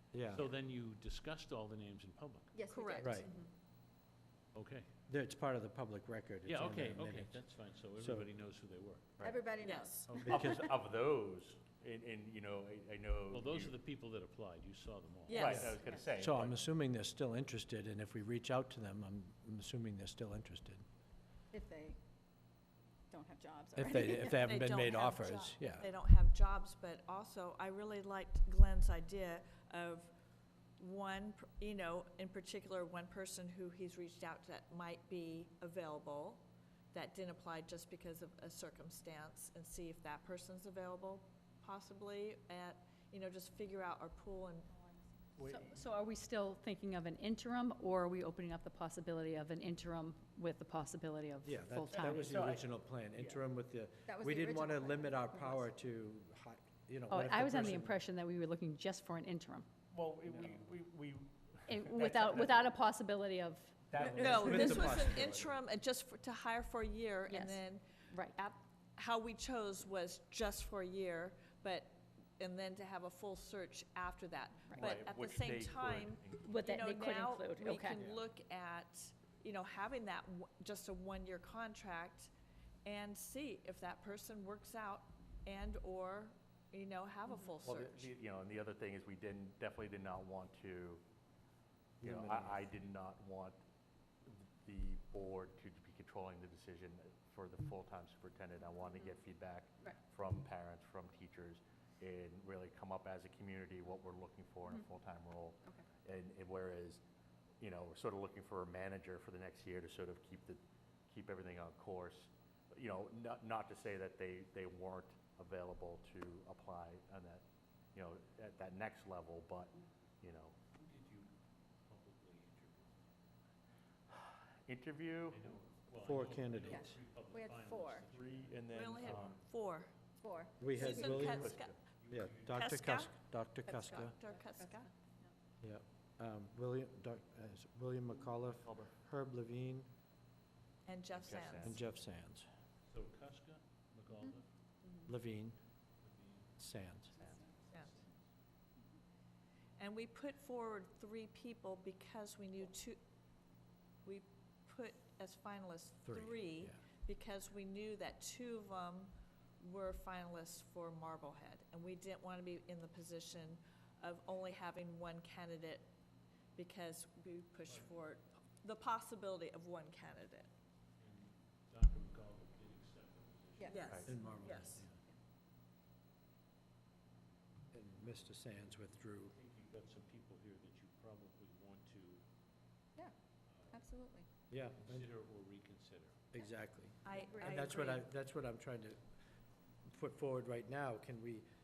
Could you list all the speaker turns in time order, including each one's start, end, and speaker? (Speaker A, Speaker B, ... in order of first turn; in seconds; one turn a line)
Speaker A: 0.1-0.5
Speaker B: 0.3-2.5
Speaker C: 2.5-3.3
Speaker D: 2.7-3.2
Speaker A: 3.0-3.3
Speaker B: 4.5-4.9
Speaker A: 5.1-8.3
Speaker B: 6.5-9.2
Speaker C: 9.2-10.6
Speaker D: 9.6-9.9
Speaker B: 10.0-10.4
Speaker E: 10.2-13.8
Speaker A: 10.3-10.6
Speaker B: 13.3-15.8
Speaker D: 15.3-15.8
Speaker E: 15.3-16.6
Speaker A: 16.2-20.8
Speaker C: 21.5-22.0
Speaker C: 23.1-24.4
Speaker A: 23.8-25.9
Speaker D: 24.0-30.1
Speaker D: 30.8-44.7
Speaker C: 44.7-45.6
Speaker F: 45.5-52.5
Speaker A: 51.4-58.0
Speaker E: 51.9-52.6
Speaker C: 54.1-55.7
Speaker F: 57.1-59.7
Speaker E: 59.9-62.6
Speaker F: 61.7-65.0
Speaker E: 63.9-64.2
Speaker A: 64.0-65.5
Speaker D: 64.0-82.3
Speaker F: 67.3-68.4
Speaker E: 74.7-76.6
Speaker F: 76.4-78.1
Speaker D: 82.8-88.1
Speaker E: 87.6-91.0
Speaker E: 92.0-93.6
Speaker A: 92.0-92.5
Speaker E: 94.2-107.0
Speaker E: 107.6-120.6
Speaker B: 120.7-123.1
Speaker E: 124.1-125.4
Speaker B: 125.3-129.4
Speaker A: 126.0-127.0
Speaker C: 126.7-128.1
Speaker E: 128.1-129.4
Speaker D: 128.7-129.9
Speaker C: 130.2-131.1
Speaker A: 130.6-134.2
Speaker D: 130.8-131.8
Speaker E: 131.0-131.8
Speaker B: 132.0-132.7
Speaker D: 132.5-134.9
Speaker C: 133.7-135.3
Speaker A: 135.6-139.9
Speaker E: 138.5-138.9
Speaker D: 140.8-141.8
Speaker E: 141.2-141.8
Speaker A: 141.6-142.5
Speaker B: 142.9-144.5
Speaker A: 145.1-145.6
Speaker B: 146.0-146.6
Speaker A: 146.6-147.2
Speaker B: 147.1-148.3
Speaker D: 149.8-153.0
Speaker D: 154.0-165.9
Speaker A: 156.1-156.8
Speaker D: 166.6-170.5
Speaker B: 171.0-174.9
Speaker C: 173.6-174.3
Speaker D: 173.7-174.9
Speaker A: 174.1-174.9
Speaker A: 177.7-179.3
Speaker B: 179.3-182.2
Speaker B: 183.5-183.9
Speaker C: 183.7-184.2
Speaker A: 184.5-185.1
Speaker B: 184.7-186.2
Speaker A: 186.3-189.0
Speaker D: 187.1-188.1
Speaker A: 189.8-191.5